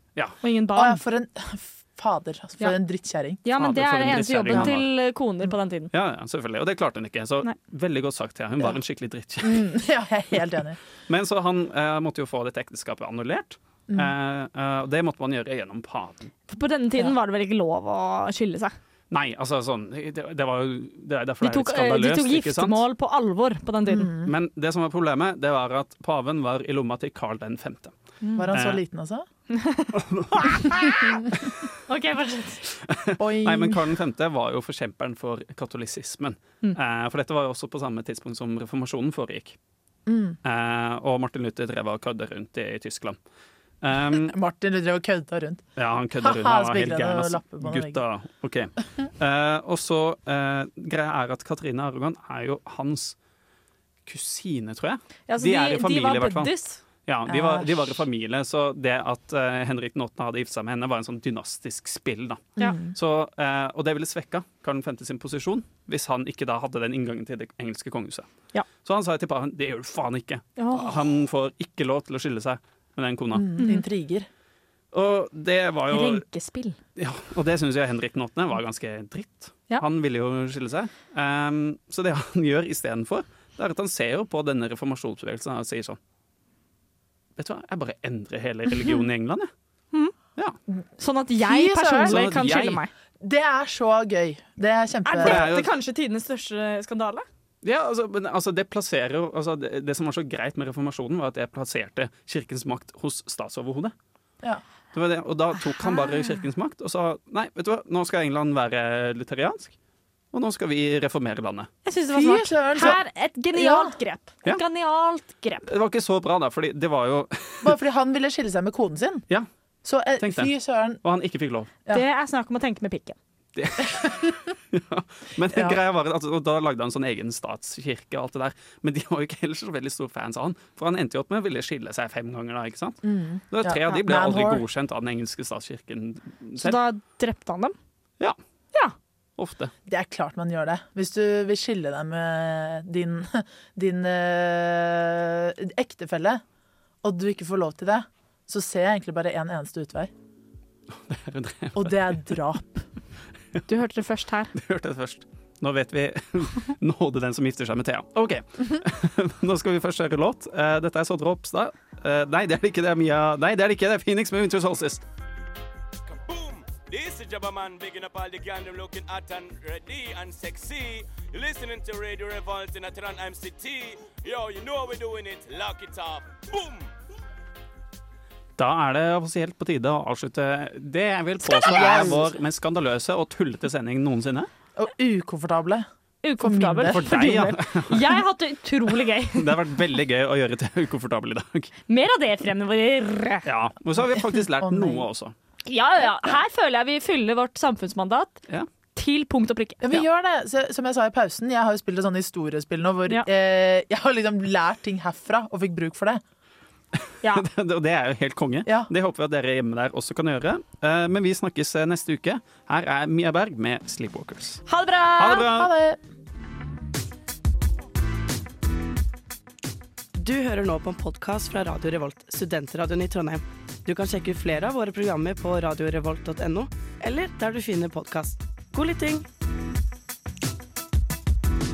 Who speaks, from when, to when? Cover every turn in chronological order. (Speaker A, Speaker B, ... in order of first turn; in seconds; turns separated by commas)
Speaker A: 0.4-1.0, Speaker B: 0.7-3.4, Speaker A: 3.4-5.9, Speaker C: 3.5-4.9, Speaker C: 5.9-9.7, Speaker B: 9.4-10.8, Speaker C: 11.1-16.3, Speaker A: 16.5-18.7, Speaker C: 19.1-22.8, Speaker A: 21.4-24.1, Speaker B: 23.9-24.3, Speaker C: 24.2-27.9, Speaker A: 28.2-28.5, Speaker B: 28.4-29.2, Speaker C: 28.5-28.8, Speaker A: 29.5-31.0, Speaker C: 29.9-31.2, Speaker A: 31.9-32.6, Speaker C: 32.8-39.5, Speaker B: 33.2-33.8, Speaker B: 40.0-40.4, Speaker C: 40.4-43.2, Speaker C: 43.8-44.3, Speaker B: 44.1-45.7, Speaker C: 45.8-53.1, Speaker B: 46.2-48.0, Speaker C: 54.0-56.5, Speaker A: 55.3-56.8, Speaker C: 57.0-68.3, Speaker B: 57.2-57.7, Speaker B: 62.6-62.9, Speaker C: 68.8-73.5, Speaker A: 70.6-71.0, Speaker B: 73.3-74.3, Speaker A: 73.6-73.8, Speaker C: 74.9-76.2, Speaker A: 75.9-76.8, Speaker C: 77.0-86.0, Speaker C: 87.4-89.5, Speaker A: 91.0-92.9, Speaker B: 91.4-92.4, Speaker C: 92.1-92.8, Speaker B: 93.2-95.5, Speaker A: 95.0-97.3, Speaker C: 95.2-95.7, Speaker C: 97.6-103.9, Speaker C: 104.9-109.7, Speaker A: 105.8-106.4, Speaker C: 110.3-111.7, Speaker A: 111.8-115.7, Speaker B: 112.1-113.0, Speaker B: 113.5-113.9, Speaker C: 115.7-117.7, Speaker B: 117.6-119.2, Speaker B: 119.8-121.0, Speaker C: 120.2-120.5, Speaker C: 121.0-121.7, Speaker A: 121.9-123.2, Speaker C: 123.5-136.8, Speaker B: 123.9-124.3, Speaker B: 125.5-125.8, Speaker B: 133.0-134.6, Speaker A: 136.6-137.7, Speaker C: 139.4-139.7, Speaker B: 139.9-146.4, Speaker B: 147.0-150.1, Speaker C: 150.9-152.0, Speaker B: 151.7-152.9, Speaker A: 153.7-154.5, Speaker C: 154.5-165.0, Speaker D: 166.1-176.9, Speaker C: 178.6-184.5, Speaker A: 181.4-182.1, Speaker B: 181.6-182.4, Speaker B: 184.8-185.8, Speaker A: 186.2-189.5, Speaker B: 186.4-187.1, Speaker C: 186.9-188.2, Speaker C: 189.3-191.7, Speaker A: 191.9-193.5, Speaker C: 193.4-195.3, Speaker B: 194.3-195.1, Speaker A: 195.7-198.4, Speaker A: 198.9-200.0, Speaker B: 199.8-206.2, Speaker C: 207.3-214.6, Speaker B: 208.6-208.9, Speaker A: 214.7-215.5, Speaker C: 215.2-215.7, Speaker B: 215.5-216.0, Speaker E: 220.2-229.2